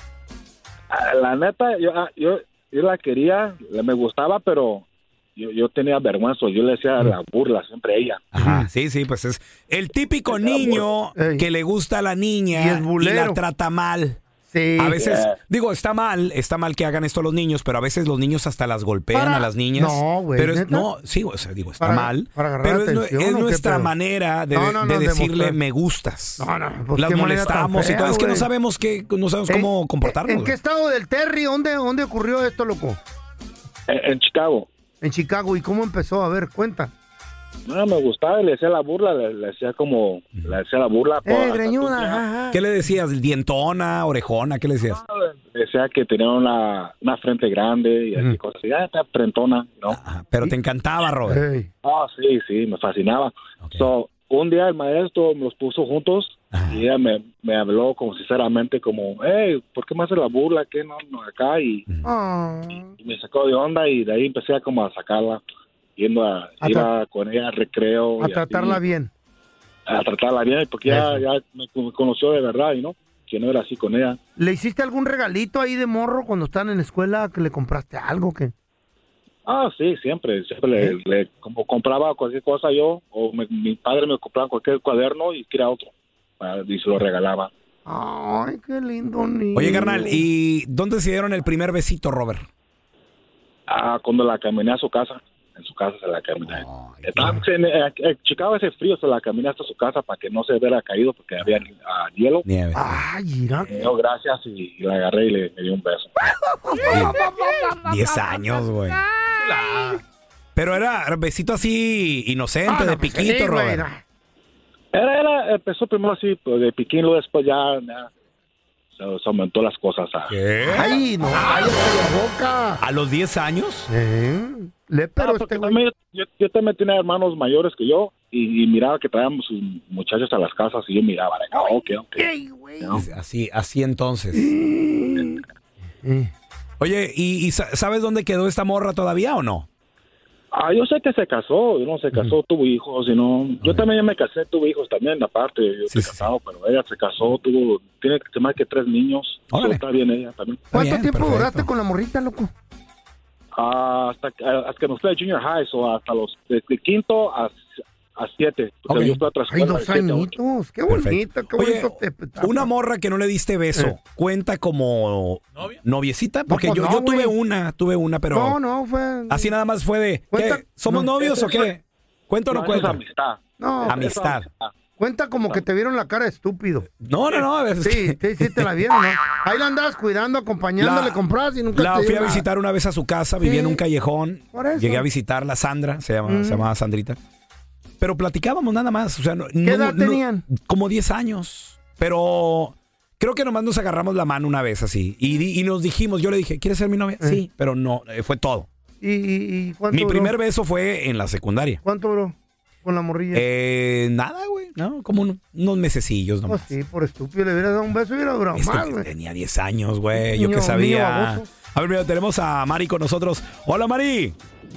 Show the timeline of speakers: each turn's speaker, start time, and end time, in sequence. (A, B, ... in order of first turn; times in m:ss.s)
0:00.9-0:08.3 A
0:08.3-0:14.2 B
0:08.4-0:08.7 C
0:10.3-0:10.8 A
0:11.2-0:11.5 C
0:12.5-0:13.4 C
0:14.5-0:15.2 C
0:14.8-0:30.5 B
0:15.0-0:15.4 A
0:19.1-0:20.9 C
0:21.8-0:23.9 C
0:24.5-0:25.6 C
0:26.4-0:28.5 C
0:29.5-0:33.0 C
0:33.9-0:34.7 A
0:35.0-0:36.9 C
0:37.7-0:42.2 A
0:41.2-0:42.6 C
0:42.5-0:45.0 B
0:45.1-0:50.0 A
0:49.9-0:51.4 B
0:51.3-0:51.7 C
0:51.8-1:01.8 A
0:56.5-0:56.8 B
1:02.0-1:02.9 C
1:03.0-1:05.4 A
1:06.0-1:08.8 A
1:06.6-1:06.9 C
1:08.2-1:09.1 C
1:09.9-1:14.2 A
1:10.9-1:11.2 C
1:14.4-1:18.5 C
1:19.5-1:27.5 A
1:27.9-1:30.2 C
1:29.6-1:32.5 B
1:33.7-1:42.4 A
1:36.5-1:37.4 B
1:42.5-1:43.0 B
1:42.7-1:43.9 C
1:43.6-1:46.2 A
1:46.6-1:48.4 C
1:46.8-1:47.3 B
1:47.8-1:49.0 B
1:50.6-1:53.8 B
1:52.7-1:54.0 C
1:54.9-1:58.1 A
1:58.9-2:00.4 A
2:00.3-2:00.9 B
2:00.7-2:02.8 C
2:02.8-2:03.9 B
2:03.9-2:05.8 C
2:05.2-2:12.3 A
2:11.5-2:13.0 C
2:13.0-2:14.5 B
2:14.3-2:15.4 C
2:16.0-2:16.3 C
2:16.8-2:19.7 B
2:20.5-2:30.6 A
2:25.9-2:26.3 B
2:29.5-2:29.8 B
2:30.7-2:31.7 B
2:30.7-2:32.5 C
2:33.6-2:40.4 A
2:38.9-2:39.2 B
2:39.5-2:42.7 C
2:40.9-2:48.6 B
2:46.5-2:47.3 C
2:48.3-2:49.5 C
2:49.3-2:53.0 B
2:50.3-2:51.6 C
2:52.5-2:54.7 A
2:53.6-2:54.2 C
2:53.9-2:54.5 B
2:55.0-2:56.9 C
2:57.0-2:58.7 B
2:57.8-3:02.5 C
3:00.8-3:01.2 B
3:01.8-3:07.2 B
3:03.4-3:03.8 C
3:04.5-3:05.0 C
3:06.2-3:06.7 C
3:08.0-3:18.7 B
3:09.6-3:10.5 C
3:19.0-3:20.3 C
3:19.9-3:21.8 B
3:21.8-3:23.5 C
3:23.3-3:26.7 B
3:26.5-3:29.1 C
3:28.6-3:34.4 B
3:30.1-3:31.5 C